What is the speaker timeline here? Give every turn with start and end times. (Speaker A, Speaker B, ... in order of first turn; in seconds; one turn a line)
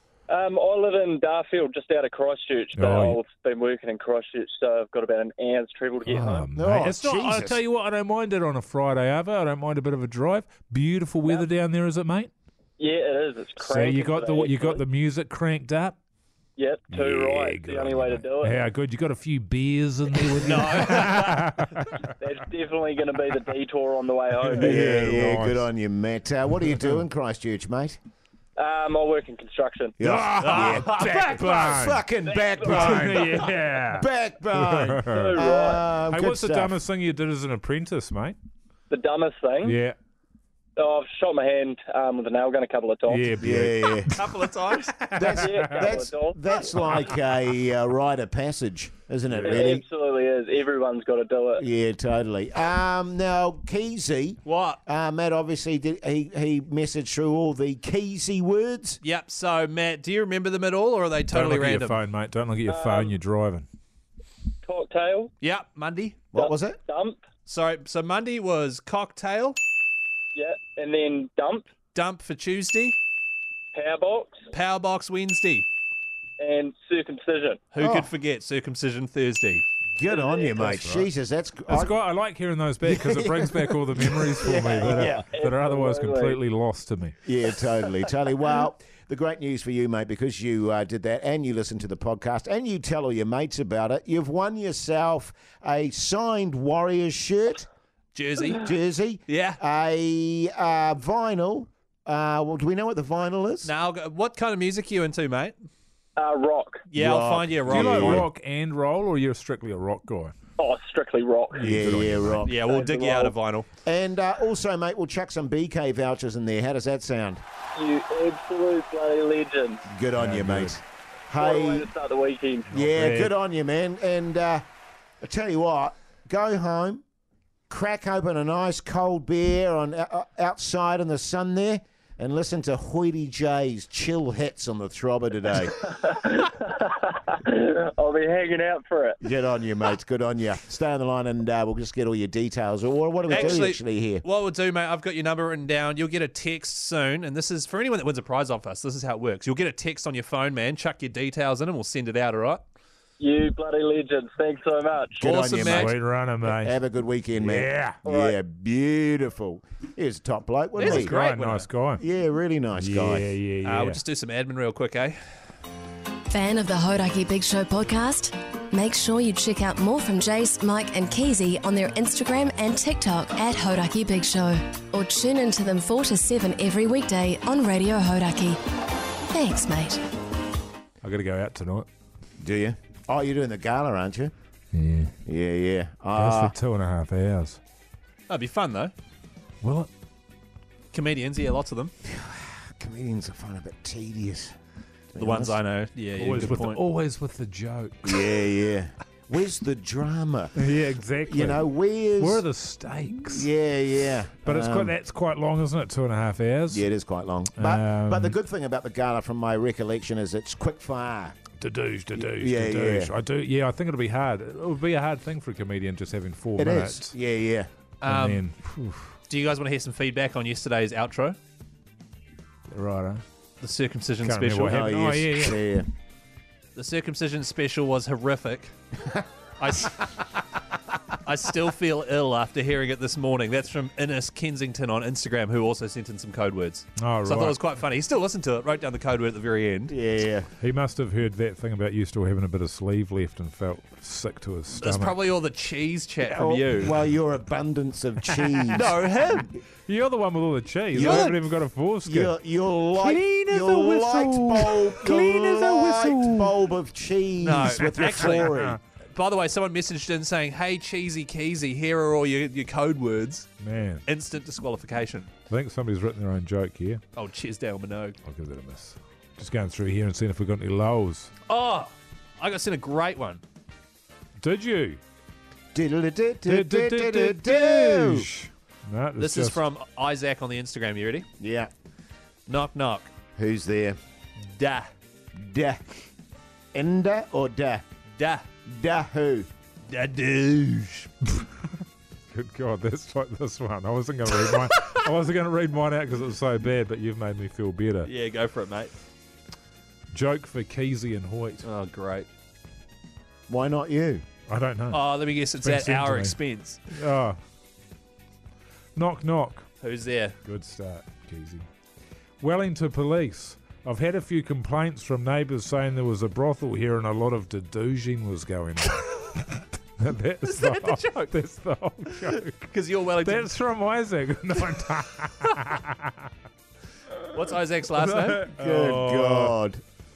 Speaker A: 0.3-6.5
Speaker B: 2.8-3.2
Speaker B: 6.0-12.3
Speaker C: 6.5-7.6
Speaker A: 12.8-14.8
Speaker B: 13.6-16.0
Speaker A: 16.6-18.6
Speaker B: 16.9-22.0
Speaker D: 20.4-21.4
Speaker A: 22.2-24.9
Speaker B: 24.4-25.7
Speaker C: 24.6-28.0
Speaker A: 28.6-30.0
Speaker C: 30.0-36.8
Speaker B: 30.0-32.0
Speaker D: 30.4-30.9
Speaker A: 32.5-33.3
Speaker B: 32.6-35.4
Speaker A: 35.1-35.8
Speaker B: 36.1-38.4
Speaker A: 38.9-39.8
Speaker B: 39.6-40.0
Speaker A: 40.8-43.3
Speaker B: 43.1-45.9
Speaker C: 43.4-44.1
Speaker D: 44.1-44.9
Speaker C: 45.1-49.8
Speaker A: 45.3-46.7
Speaker D: 49.3-49.7
Speaker A: 49.4-51.6
Speaker C: 51.6-59.0
Speaker D: 54.5-54.8
Speaker D: 59.0-62.0
Speaker B: 61.3-63.7
Speaker A: 62.7-63.2
Speaker A: 64.7-65.3
Speaker D: 65.4-66.2
Speaker C: 66.3-66.8
Speaker A: 66.3-67.2
Speaker D: 67.5-69.6
Speaker A: 70.3-71.7
Speaker D: 71.9-73.0
Speaker A: 73.7-74.4
Speaker D: 74.5-75.7
Speaker A: 76.4-77.7
Speaker D: 77.7-79.6
Speaker C: 77.8-78.1
Speaker C: 80.0-82.0
Speaker A: 80.1-80.6
Speaker B: 80.6-81.1
Speaker B: 81.7-87.2
Speaker C: 82.8-85.2
Speaker A: 84.8-86.4
Speaker C: 87.2-97.7
Speaker D: 98.2-98.6
Speaker C: 98.6-103.7
Speaker D: 99.3-99.6
Speaker D: 103.7-105.6
Speaker A: 106.2-106.8
Speaker D: 106.9-108.3
Speaker C: 107.0-108.3
Speaker B: 107.7-110.3
Speaker A: 110.6-111.8
Speaker B: 111.6-112.5
Speaker C: 111.6-112.7
Speaker D: 112.5-113.7
Speaker A: 112.6-113.3
Speaker C: 113.8-117.4
Speaker A: 117.8-119.8
Speaker C: 119.9-121.9
Speaker B: 120.2-120.8
Speaker A: 121.4-122.7
Speaker C: 122.7-124.6
Speaker B: 122.7-123.3
Speaker C: 125.2-127.0
Speaker C: 127.7-135.8
Speaker A: 135.8-139.2
Speaker C: 139.2-144.2
Speaker D: 143.3-152.6
Speaker A: 143.3-143.6
Speaker A: 153.2-155.2
Speaker C: 155.2-161.2
Speaker D: 155.2-155.9
Speaker B: 155.7-156.8
Speaker B: 157.4-158.0
Speaker A: 158.1-158.4
Speaker D: 160.8-161.7
Speaker B: 160.8-162.0
Speaker C: 162.0-163.3
Speaker B: 162.8-164.0
Speaker D: 163.6-165.2
Speaker E: 166.3-178.6
Speaker E: 179.3-180.0
Speaker B: 181.0-181.9
Speaker C: 182.4-184.3
Speaker B: 184.7-185.1
Speaker C: 185.3-186.5
Speaker B: 186.2-187.6
Speaker D: 188.3-188.9
Speaker B: 189.6-189.9
Speaker D: 190.9-191.9
Speaker C: 192.1-194.5
Speaker C: 195.1-195.6
Speaker D: 195.2-196.8
Speaker B: 196.2-198.5
Speaker C: 198.1-200.6
Speaker B: 200.6-201.7
Speaker C: 201.3-202.4
Speaker B: 202.2-203.5
Speaker C: 203.3-204.9
Speaker B: 204.4-206.9
Speaker C: 206.7-211.4
Speaker B: 207.6-208.4
Speaker B: 211.6-217.1
Speaker C: 212.2-213.1
Speaker C: 216.6-217.7
Speaker D: 218.0-218.4
Speaker B: 218.1-219.1
Speaker D: 219.3-221.4
Speaker B: 222.7-223.2
Speaker D: 223.6-225.2
Speaker B: 224.2-225.6
Speaker C: 224.7-225.9
Speaker D: 226.8-228.7
Speaker D: 229.6-230.2
Speaker D: 231.2-239.9
Speaker B: 237.0-237.6
Speaker C: 239.9-240.5
Speaker B: 240.6-245.2
Speaker D: 244.7-246.9
Speaker C: 246.2-249.0
Speaker B: 248.3-249.0
Speaker D: 248.7-249.5
Speaker B: 249.9-252.3
Speaker C: 250.9-251.3
Speaker D: 251.0-251.4
Speaker C: 252.1-258.8
Speaker D: 253.0-256.5
Speaker D: 257.4-263.5
Speaker B: 257.9-258.8
Speaker B: 263.6-264.0
Speaker D: 264.1-265.3
Speaker B: 265.5-267.0
Speaker D: 267.2-268.2
Speaker B: 268.2-271.3
Speaker D: 271.5-273.4
Speaker B: 274.4-275.0
Speaker C: 275.7-278.3
Speaker B: 276.5-279.6
Speaker D: 279.2-281.3
Speaker C: 281.4-281.7
Speaker D: 282.5-283.1
Speaker C: 283.4-284.0
Speaker D: 284.5-284.9
Speaker C: 285.4-286.1
Speaker C: 286.7-287.8
Speaker D: 288.2-288.4
Speaker C: 288.7-289.5
Speaker D: 289.9-291.1
Speaker B: 292.3-298.1
Speaker D: 298.0-298.9
Speaker B: 300.1-301.7
Speaker D: 301.6-302.3
Speaker C: 303.5-304.2
Speaker B: 304.5-306.4
Speaker D: 304.9-306.8
Speaker B: 306.9-307.4
Speaker B: 309.0-309.7
Speaker D: 309.8-310.4
Speaker B: 310.4-311.7
Speaker B: 312.4-322.7
Speaker D: 320.4-321.3
Speaker D: 322.7-323.5
Speaker B: 323.2-326.1
Speaker D: 327.3-328.4
Speaker B: 328.0-329.6
Speaker C: 328.5-329.8